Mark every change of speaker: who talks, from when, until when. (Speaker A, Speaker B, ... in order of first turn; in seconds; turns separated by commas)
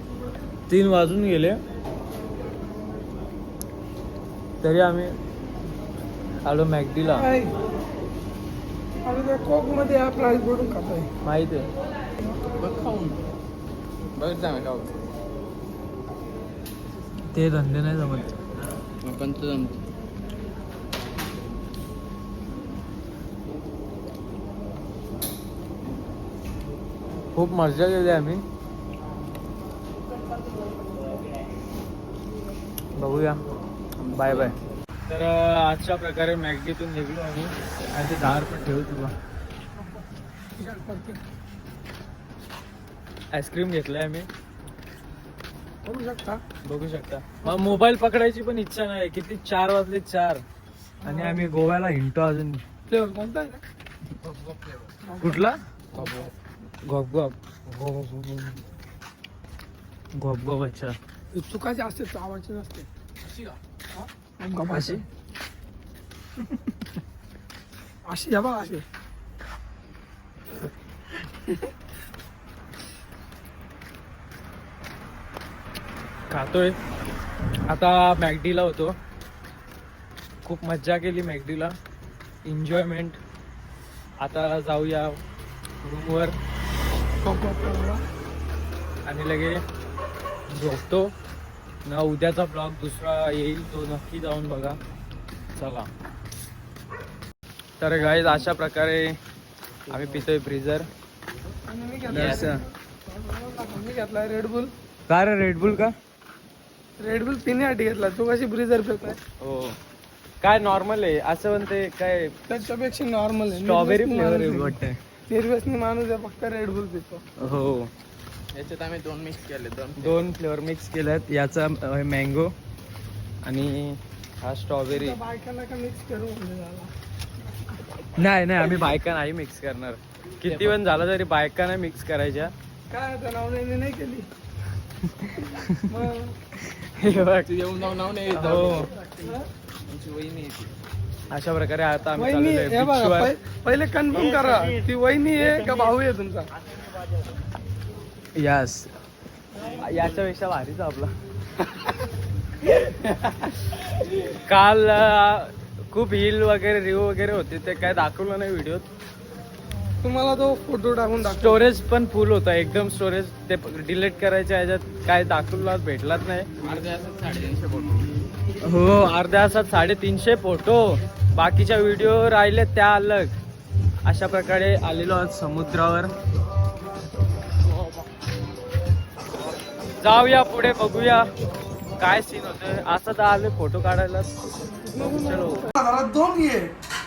Speaker A: 0.7-1.6, Speaker A: 4.6-5.1, Speaker A: 6.4-7.3, Speaker B: 7.1-7.5, Speaker B: 9.0-11.1, Speaker A: 11.2-11.7, Speaker C: 12.6-13.2, Speaker C: 14.2-14.9, Speaker A: 17.3-18.3, Speaker C: 19.0-19.8, Speaker A: 27.3-28.4, Speaker A: 33.0-33.4, Speaker A: 34.0-34.5, Speaker C: 34.1-34.5, Speaker A: 35.1-39.1, Speaker B: 40.5-41.2, Speaker A: 43.3-44.3, Speaker B: 45.8-46.4, Speaker A: 46.6-50.4, Speaker B: 51.0-51.5, Speaker A: 51.0-52.6, Speaker B: 52.9-53.6, Speaker C: 54.2-54.9, Speaker B: 55.0-55.4, Speaker A: 55.2-56.1, Speaker B: 56.0-56.3, Speaker A: 56.8-58.5, Speaker A: 60.1-60.9, Speaker B: 61.3-62.9, Speaker B: 64.0-65.0, Speaker A: 64.7-65.0, Speaker B: 68.0-68.8, Speaker A: 76.3-76.8, Speaker A: 77.7-78.9, Speaker A: 80.4-81.7, Speaker A: 82.4-83.2, Speaker A: 84.2-85.2, Speaker A: 85.8-86.3, Speaker B: 87.2-88.0, Speaker A: 89.0-89.6, Speaker A: 90.5-91.1, Speaker A: 91.8-94.8, Speaker A: 95.5-95.9, Speaker A: 97.8-99.2, Speaker C: 98.0-98.5, Speaker C: 99.9-100.2, Speaker A: 99.9-100.9, Speaker B: 101.7-104.7, Speaker A: 102.1-102.6, Speaker A: 105.1-105.9, Speaker B: 107.0-109.2, Speaker A: 109.4-109.8, Speaker A: 110.4-112.3, Speaker B: 112.5-114.7, Speaker A: 113.5-115.0, Speaker B: 115.3-117.2, Speaker A: 117.4-117.9, Speaker C: 118.5-120.2, Speaker A: 120.0-122.5, Speaker A: 123.4-125.2, Speaker B: 124.9-126.9, Speaker A: 128.2-132.5, Speaker C: 130.4-130.8, Speaker B: 132.9-134.3, Speaker A: 135.2-135.9, Speaker B: 135.9-136.3, Speaker A: 136.6-137.5, Speaker C: 137.4-139.0, Speaker A: 138.3-138.9, Speaker C: 139.8-140.7, Speaker A: 141.3-143.3, Speaker B: 142.1-146.5, Speaker A: 148.3-148.9, Speaker A: 149.8-151.1, Speaker B: 152.8-153.2, Speaker A: 154.3-158.8, Speaker B: 160.0-161.7, Speaker A: 161.2-166.5, Speaker C: 166.6-168.1, Speaker A: 168.6-173.3, Speaker A: 174.0-176.1, Speaker A: 180.0-181.2, Speaker A: 182.0-184.3, Speaker B: 184.8-186.7, Speaker A: 185.0-185.7